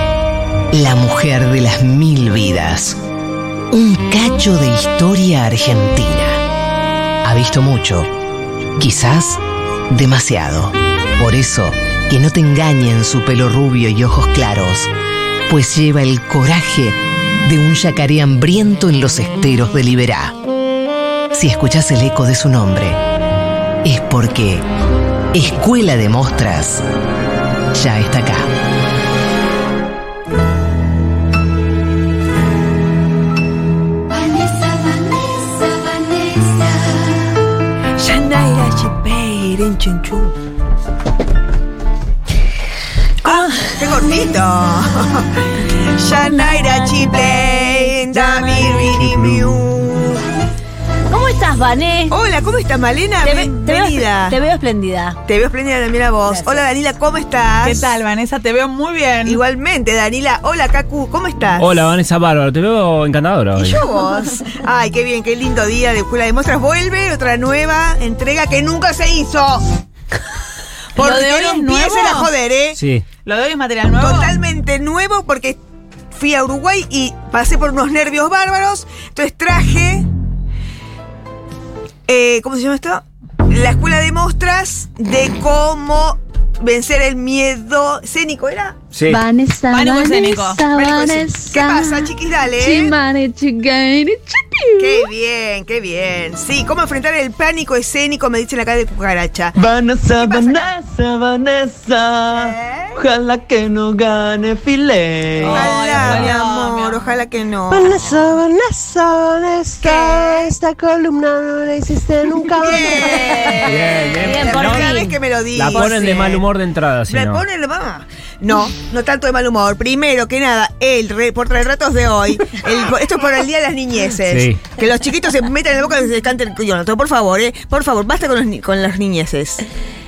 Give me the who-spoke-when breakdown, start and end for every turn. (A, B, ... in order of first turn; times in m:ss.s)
0:00.7-0:03.0 A
0:03.7-0:06.4 A
0:07.2-0:08.1 A
0:08.8-0:14.9 A
0:15.5-0:20.3 A
0:21.3-0:23.0 A
0:23.8-0:24.6 A
0:25.3-0:26.8 A
0:27.7-0:28.5 A
0:38.0-0:40.3 B
0:43.2-0:50.2 B
0:43.2-0:43.8 C
0:46.4-0:47.5 C
0:48.1-0:49.0 D
0:51.1-0:52.1 C
0:52.1-0:54.4 B
0:53.2-0:55.2 C
0:55.2-0:57.8 B
0:56.2-0:56.6 C
0:57.6-0:59.4 D
0:59.2-1:01.9 B
1:01.6-1:03.8 E
1:03.5-1:09.6 B
1:11.0-1:12.8 B
1:11.0-1:12.3 D
1:12.8-1:13.0 E
1:13.2-1:14.3 D
1:14.0-1:15.6 B
1:16.1-1:20.1 B
1:22.1-1:28.8 B
1:28.9-1:29.2 E
1:29.1-1:35.0 F
1:29.7-1:30.7 D
1:30.7-1:33.0 B
1:34.8-1:39.5 B
1:39.5-1:45.8 G
1:40.2-1:40.6 B
1:42.4-1:43.0 B
1:45.4-1:47.1 D
1:45.5-1:47.9 B
1:46.0-1:46.3 E
1:47.7-1:53.5 H
1:49.8-1:50.5 B
1:52.6-1:56.5 B
1:53.6-1:57.4 E
1:54.2-1:55.2 C
1:55.7-1:56.0 C
1:57.1-2:09.6 B
2:04.2-2:04.6 E